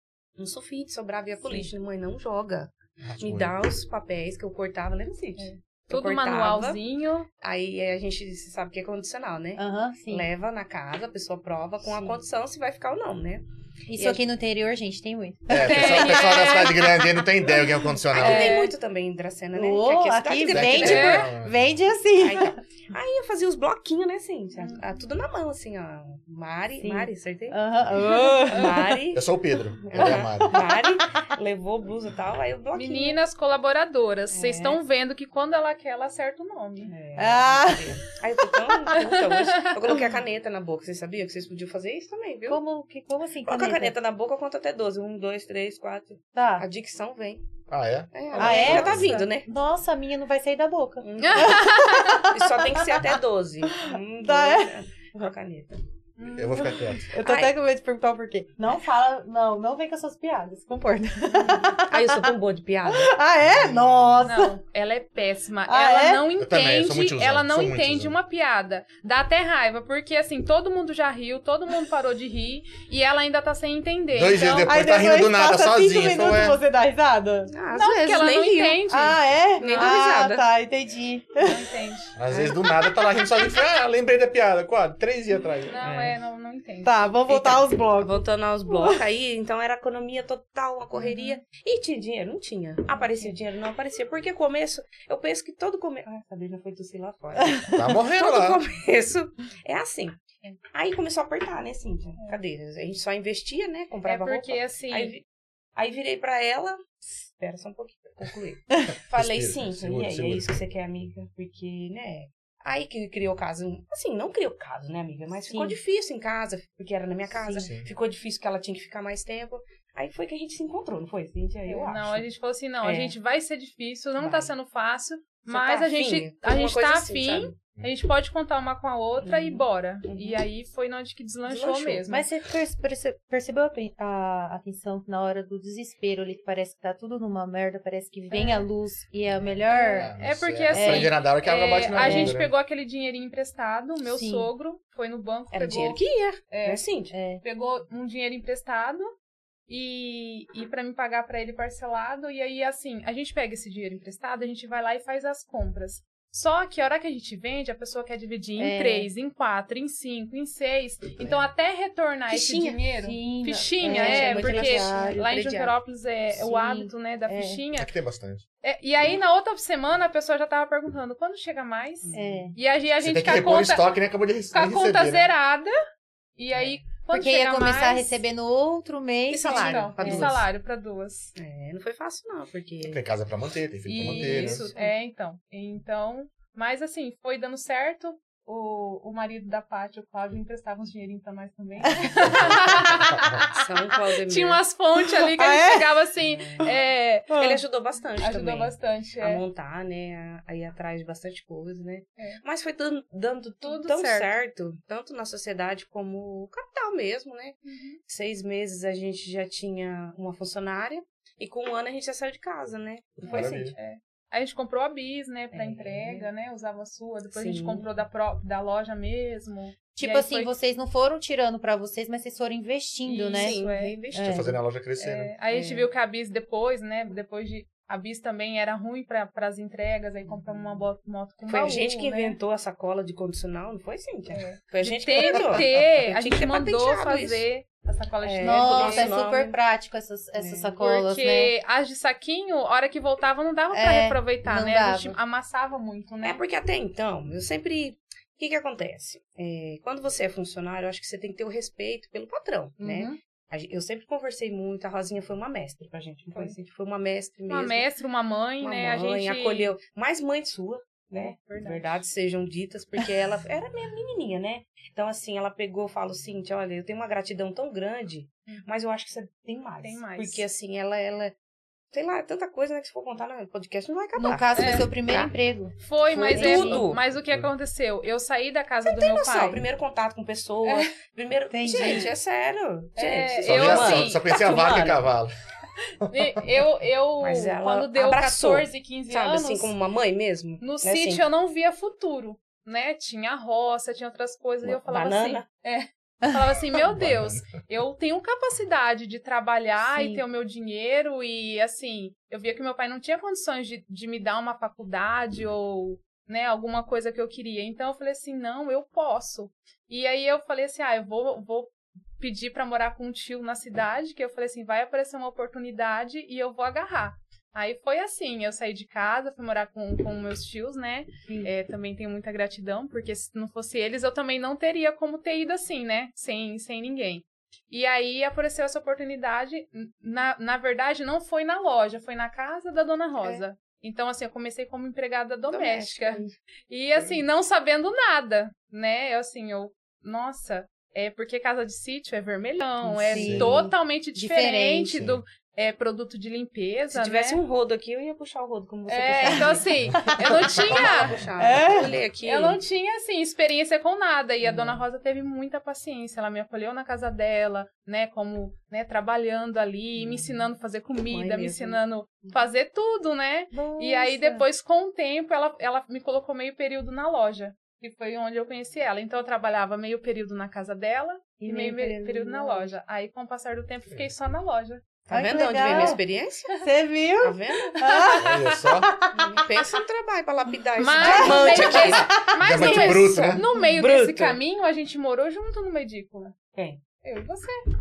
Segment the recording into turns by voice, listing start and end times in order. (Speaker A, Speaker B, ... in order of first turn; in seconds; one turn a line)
Speaker A: 0.4-6.8
Speaker B: 1.4-1.7
Speaker C: 3.0-3.5
Speaker D: 5.4-7.3
Speaker A: 7.4-14.2
Speaker B: 9.6-10.2
Speaker B: 13.9-16.6
Speaker C: 15.5-18.6
Speaker D: 15.6-16.9
Speaker A: 18.1-21.2
Speaker D: 18.1-18.7
Speaker B: 19.5-22.6
Speaker C: 20.4-21.7
Speaker D: 20.8-21.3
Speaker A: 22.1-27.6
Speaker B: 26.8-29.0
Speaker D: 28.1-28.7
Speaker A: 28.1-33.2
Speaker C: 29.1-30.6
Speaker B: 29.9-31.2
Speaker D: 32.7-36.9
Speaker A: 34.3-34.8
Speaker A: 36.9-42.6
Speaker B: 37.1-38.0
Speaker D: 38.9-39.8
Speaker B: 42.5-43.9
Speaker A: 43.5-47.4
Speaker B: 46.4-46.6
Speaker C: 47.7-49.2
Speaker A: 48.1-49.5
Speaker B: 48.4-53.1
Speaker D: 48.6-49.2
Speaker A: 51.0-51.7
Speaker D: 51.2-52.2
Speaker A: 52.3-55.8
Speaker B: 53.7-54.7
Speaker D: 56.2-56.8
Speaker C: 56.3-57.1
Speaker B: 57.1-62.3
Speaker A: 57.2-57.5
Speaker D: 61.3-61.7
Speaker A: 61.8-63.1
Speaker B: 62.9-64.5
Speaker C: 63.4-64.1
Speaker D: 64.2-74.7
Speaker B: 65.7-66.3
Speaker C: 66.4-68.1
Speaker C: 74.1-76.6
Speaker B: 74.7-77.5
Speaker A: 77.5-78.8
Speaker D: 77.7-80.0
Speaker B: 78.9-81.6
Speaker A: 79.6-80.5
Speaker D: 81.4-82.1
Speaker C: 82.2-85.8
Speaker B: 82.3-82.5
Speaker D: 85.7-87.1
Speaker A: 85.8-86.2
Speaker B: 86.8-89.0
Speaker A: 87.3-100.2
Speaker D: 91.0-91.4
Speaker D: 93.0-93.3
Speaker B: 97.4-97.8
Speaker C: 97.7-98.6
Speaker A: 100.7-105.2
Speaker D: 104.0-105.1
Speaker A: 105.8-122.2
Speaker C: 109.1-110.5
Speaker B: 115.5-115.8
Speaker B: 117.3-117.7
Speaker C: 117.5-117.9
Speaker D: 121.7-132.3
Speaker A: 122.8-123.1
Speaker A: 124.2-124.5
Speaker A: 125.5-127.5
Speaker A: 129.2-130.4
Speaker A: 131.5-132.0
Speaker B: 132.1-140.1
Speaker D: 138.3-138.7
Speaker D: 139.7-146.8
Speaker C: 139.9-142.5
Speaker B: 140.7-141.1
Speaker B: 142.0-142.4
Speaker B: 144.1-144.5
Speaker A: 145.5-147.1
Speaker B: 147.1-147.4
Speaker D: 147.4-149.1
Speaker D: 149.7-167.9
Speaker B: 158.6-159.1
Speaker A: 162.3-162.8
Speaker B: 163.0-165.4
Speaker A: 163.8-165.7
Speaker B: 166.4-167.6
Speaker C: 167.7-168.4
Speaker D: 168.6-173.9
Speaker A: 172.0-172.4
Speaker B: 172.1-172.6
Speaker C: 173.0-175.3
Speaker D: 174.5-175.7
Speaker D: 176.4-178.1
Speaker B: 177.1-180.3
Speaker A: 179.3-180.4
Speaker D: 179.4-181.3
Speaker A: 181.4-183.0
Speaker C: 182.8-184.7
Speaker D: 183.9-193.6
Speaker A: 184.0-184.9
Speaker B: 191.9-192.2
Speaker A: 193.5-194.6
Speaker D: 194.3-197.4
Speaker B: 195.2-196.0
Speaker A: 196.2-196.7
Speaker B: 197.3-197.6
Speaker A: 197.4-213.8
Speaker D: 198.2-199.4
Speaker D: 203.6-204.3
Speaker D: 207.7-208.0
Speaker C: 213.2-213.8
Speaker D: 213.2-220.5
Speaker A: 215.5-216.3
Speaker A: 217.3-217.9
Speaker B: 219.9-223.6
Speaker D: 223.1-224.0
Speaker A: 223.3-224.6
Speaker B: 224.1-224.6
Speaker C: 224.2-225.3
Speaker D: 225.0-232.4
Speaker A: 225.5-225.9
Speaker A: 230.3-230.6
Speaker A: 231.5-237.4
Speaker D: 234.3-239.1
Speaker A: 238.2-239.6
Speaker B: 238.4-241.5
Speaker A: 240.4-240.7
Speaker D: 240.8-246.4
Speaker B: 243.7-245.2
Speaker A: 246.2-257.9
Speaker B: 252.8-253.2
Speaker D: 257.5-259.7
Speaker A: 258.6-271.4
Speaker D: 261.1-262.0
Speaker D: 268.5-268.7
Speaker D: 269.8-270.4
Speaker A: 271.9-275.3
Speaker B: 274.2-275.7
Speaker D: 274.5-274.9
Speaker D: 275.8-279.6
Speaker A: 276.1-277.0
Speaker B: 276.3-276.9
Speaker C: 277.2-277.5
Speaker A: 278.9-285.0
Speaker D: 280.6-280.9
Speaker B: 281.5-282.1
Speaker D: 282.9-284.3
Speaker C: 283.4-285.3
Speaker D: 286.1-289.7
Speaker A: 287.2-291.2
Speaker D: 290.6-347.4
Speaker A: 294.6-295.4
Speaker C: 296.8-297.5
Speaker B: 299.8-300.2
Speaker A: 335.5-336.3
Speaker B: 342.8-344.9
Speaker C: 343.2-343.6
Speaker C: 344.9-345.2
Speaker A: 346.9-349.7
Speaker D: 348.9-351.2
Speaker B: 349.2-350.8
Speaker A: 350.4-352.6
Speaker B: 351.4-352.0
Speaker D: 352.2-374.8
Speaker A: 354.4-354.8
Speaker A: 359.9-360.5
Speaker A: 361.1-361.8
Speaker B: 363.5-364.4
Speaker B: 371.4-372.7
Speaker A: 375.1-376.6
Speaker B: 375.1-376.0
Speaker D: 375.6-376.0
Speaker B: 376.6-379.5
Speaker A: 377.2-377.8
Speaker D: 377.8-378.6
Speaker C: 378.2-378.9
Speaker A: 379.1-384.4
Speaker D: 380.8-386.4
Speaker B: 380.9-382.3
Speaker C: 381.8-383.4
Speaker A: 386.5-386.8
Speaker D: 387.0-387.6